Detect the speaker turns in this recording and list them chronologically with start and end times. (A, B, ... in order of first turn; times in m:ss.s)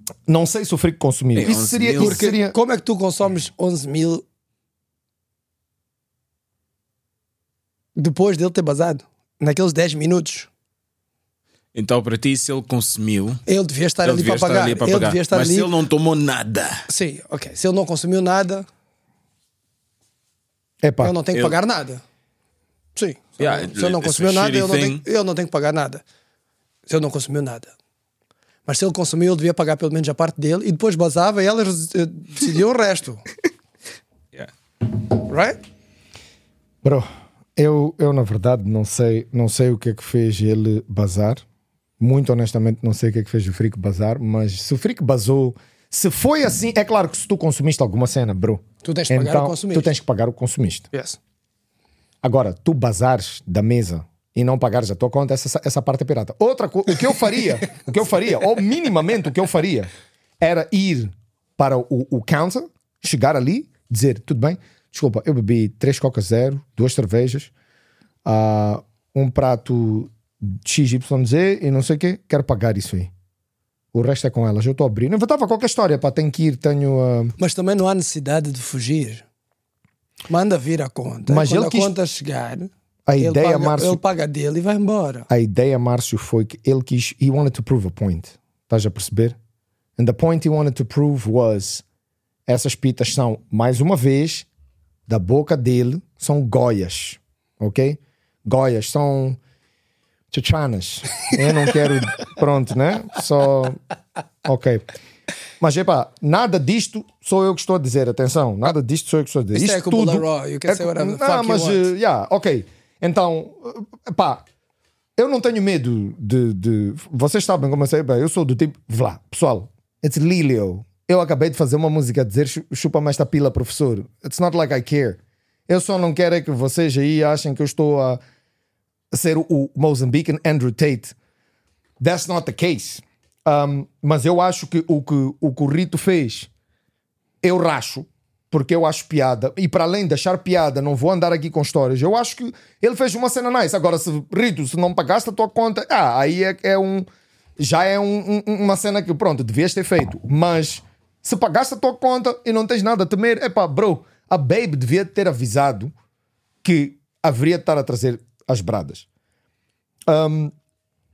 0:00.3-0:02.6 A
0:01.4-0:02.2 B
0:02.0-0:04.2 C
0:08.0-0:10.5 C
0:11.7-0:13.4 B
0:13.5-0:15.7 C
0:14.0-0:16.9 B
0:16.9-0:18.7 C
0:20.8-0:21.2 A
0:21.0-0:22.0 C
0:22.9-0:26.0 C
0:23.4-0:25.0 B
0:26.9-0:27.7 C
0:28.6-0:33.2 C
0:35.2-0:35.6 C
0:36.8-0:41.4 A
0:42.0-0:50.9 A
0:48.8-0:49.9 C
0:50.9-0:51.2 C
0:52.2-1:07.5 A
1:08.2-1:13.1 A
1:13.9-1:17.3 A
1:17.4-1:19.2 C
1:20.3-1:25.3 C
1:21.3-1:21.9 A
1:23.1-1:24.0 A
1:25.3-1:29.4 A
1:30.0-1:31.8 A
1:32.5-1:34.5 A
1:35.1-1:39.4 A
1:40.3-1:43.8 A
1:44.4-1:44.8 A
1:45.6-1:54.4 A
1:49.5-1:51.9 C
1:55.2-2:08.2 A
2:09.1-2:11.1 A
2:12.0-2:16.5 A
2:17.4-2:27.1 A
2:27.6-2:35.9 A
2:36.6-2:39.0 A
2:40.1-2:40.5 A